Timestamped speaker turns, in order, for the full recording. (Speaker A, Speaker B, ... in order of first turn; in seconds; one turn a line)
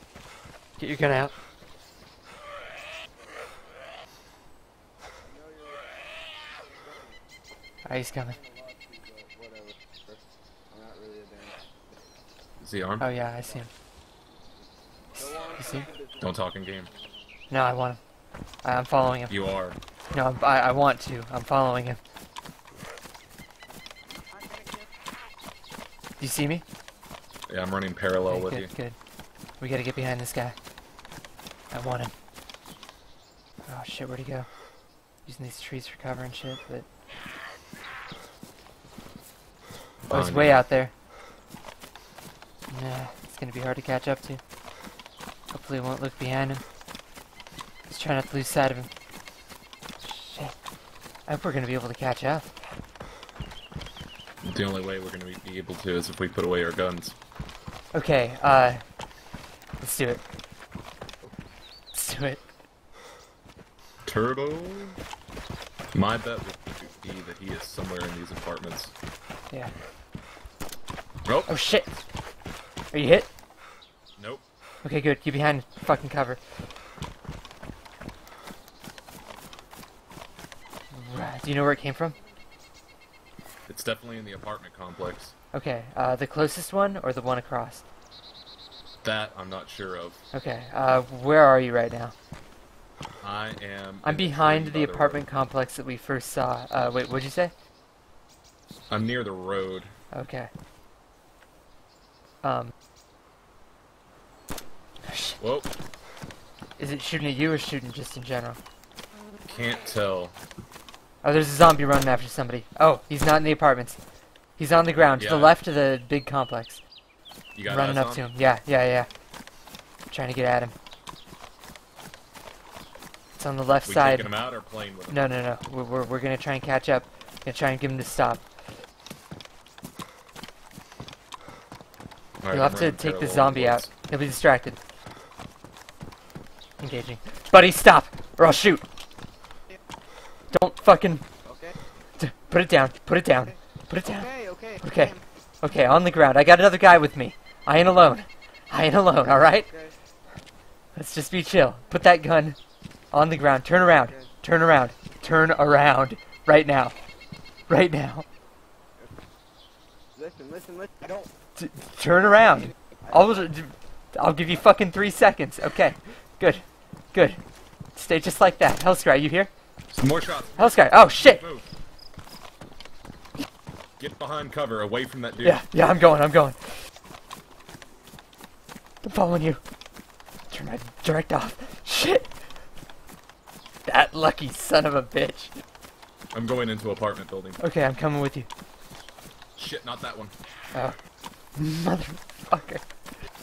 Speaker A: 0.8-1.3
Speaker A: 7.9-8.4
Speaker B: 9.4-9.7
Speaker B: 10.8-11.6
Speaker C: 12.6-13.1
Speaker A: 13.0-13.7
Speaker B: 15.2-16.1
Speaker A: 15.2-15.9
Speaker C: 16.2-16.9
Speaker A: 17.5-18.0
Speaker A: 18.6-19.3
Speaker C: 19.3-19.8
Speaker A: 20.1-22.0
Speaker A: 26.2-26.6
Speaker C: 27.5-28.7
Speaker A: 28.3-29.0
Speaker A: 29.6-30.6
Speaker A: 31.7-32.1
Speaker A: 33.7-34.5
Speaker A: 35.3-36.9
Speaker C: 40.0-40.6
Speaker A: 40.1-40.9
Speaker A: 42.7-44.4
Speaker A: 45.5-46.6
Speaker A: 47.9-48.9
Speaker A: 50.0-50.6
Speaker A: 51.3-52.5
Speaker C: 54.4-57.2
Speaker A: 57.9-58.8
Speaker A: 59.8-60.2
Speaker A: 61.9-62.4
Speaker C: 64.1-65.0
Speaker C: 65.9-68.9
Speaker C: 71.3-71.5
Speaker A: 71.5-72.0
Speaker A: 72.9-73.3
Speaker C: 74.2-74.4
Speaker A: 74.8-76.4
Speaker A: 80.9-82.2
Speaker C: 83.7-85.3
Speaker A: 85.5-87.8
Speaker C: 89.0-90.2
Speaker A: 90.3-92.1
Speaker C: 93.2-95.2
Speaker A: 94.0-97.5
Speaker C: 98.9-99.9
Speaker A: 100.1-100.5
Speaker A: 102.4-102.7
Speaker A: 105.0-105.4
Speaker C: 105.4-105.7
Speaker A: 106.8-108.6
Speaker C: 109.5-110.3
Speaker A: 111.2-114.0
Speaker A: 114.6-116.8
Speaker C: 115.2-115.6
Speaker C: 117.5-118.3
Speaker A: 117.7-119.1
Speaker A: 120.1-120.7
Speaker A: 123.4-124.3
Speaker C: 123.8-125.3
Speaker A: 125.1-128.4
Speaker C: 132.4-133.9
Speaker A: 132.5-134.8
Speaker A: 136.8-138.8
Speaker A: 140.5-141.2
Speaker A: 142.2-149.8
Speaker A: 150.9-152.6
Speaker A: 153.1-156.9
Speaker A: 157.7-158.3
Speaker B: 160.2-161.3
Speaker A: 161.6-167.4
Speaker A: 168.0-169.5
Speaker C: 169.9-171.7
Speaker A: 170.6-171.4
Speaker C: 174.0-175.6
Speaker A: 175.4-176.8
Speaker A: 179.0-179.6
Speaker A: 180.5-182.3
Speaker A: 183.9-185.5
Speaker C: 186.3-187.6
Speaker A: 187.6-188.5
Speaker C: 189.6-190.3
Speaker A: 191.6-192.8